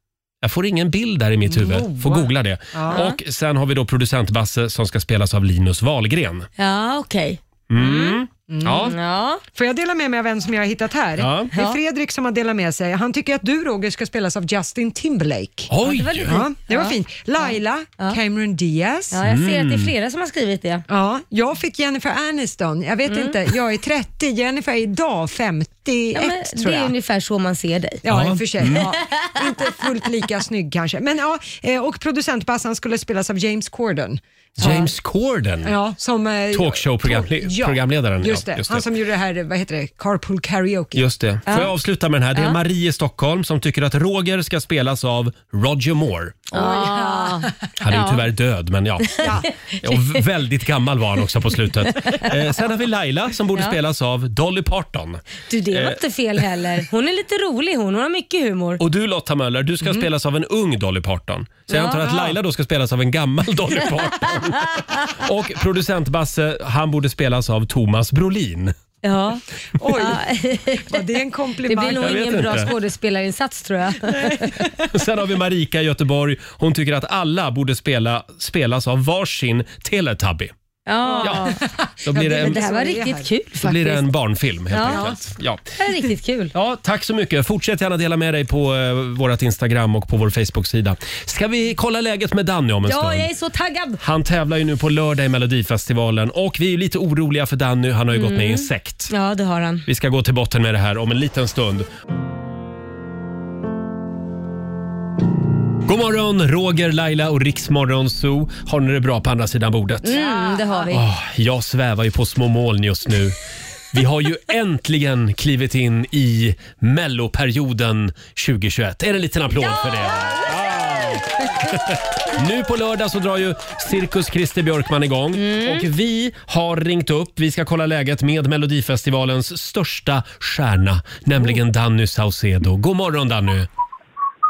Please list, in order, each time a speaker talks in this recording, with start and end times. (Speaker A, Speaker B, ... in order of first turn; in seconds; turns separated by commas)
Speaker A: 0.4-6.5, Speaker B: 1.5-3.0, Speaker C: 2.9-3.2, Speaker C: 6.6-8.2, Speaker A: 7.7-8.9, Speaker B: 8.5-8.9, Speaker C: 8.8-9.4, Speaker B: 9.5-15.7, Speaker A: 11.2-11.5, Speaker C: 11.5-11.8, Speaker A: 15.7-16.4, Speaker C: 15.8-18.2, Speaker B: 16.2-19.2, Speaker C: 19.1-20.8, Speaker A: 19.2-19.9, Speaker B: 20.9-26.9, Speaker C: 23.1-23.4, Speaker C: 26.1-28.0, Speaker B: 28.0-34.9, Speaker A: 28.1-28.9, Speaker A: 34.6-35.8, Speaker B: 35.6-41.0, Speaker A: 36.5-38.9, Speaker A: 40.9-46.5, Speaker C: 41.5-41.7, Speaker B: 46.5-47.5, Speaker C: 46.5-48.2, Speaker A: 47.8-56.0, Speaker C: 49.1-50.2, Speaker B: 49.2-49.5, Speaker C: 52.0-52.3, Speaker C: 55.5-58.8, Speaker A: 58.8-68.7, Speaker C: 61.7-62.2, Speaker C: 64.5-65.0, Speaker C: 69.0-69.4, Speaker B: 69.8-72.7, Speaker C: 70.0-70.9, Speaker C: 71.6-74.7, Speaker A: 71.9-72.7, Speaker B: 74.0-74.9, Speaker A: 74.9-80.5, Speaker C: 80.9-81.6, Speaker B: 81.0-83.3, Speaker A: 81.2-81.5, Speaker A: 82.0-82.6, Speaker C: 82.3-84.0, Speaker A: 83.6-85.7, Speaker C: 84.7-85.2, Speaker C: 85.7-86.5, Speaker A: 86.5-93.3, Speaker C: 92.8-94.0, Speaker A: 94.0-99.1, Speaker C: 98.1-99.8, Speaker A: 99.8-101.9, Speaker A: 105.8-110.2, Speaker C: 110.0-111.0, Speaker A: 110.8-113.3, Speaker A: 113.9-133.7, Speaker C: 125.3-125.8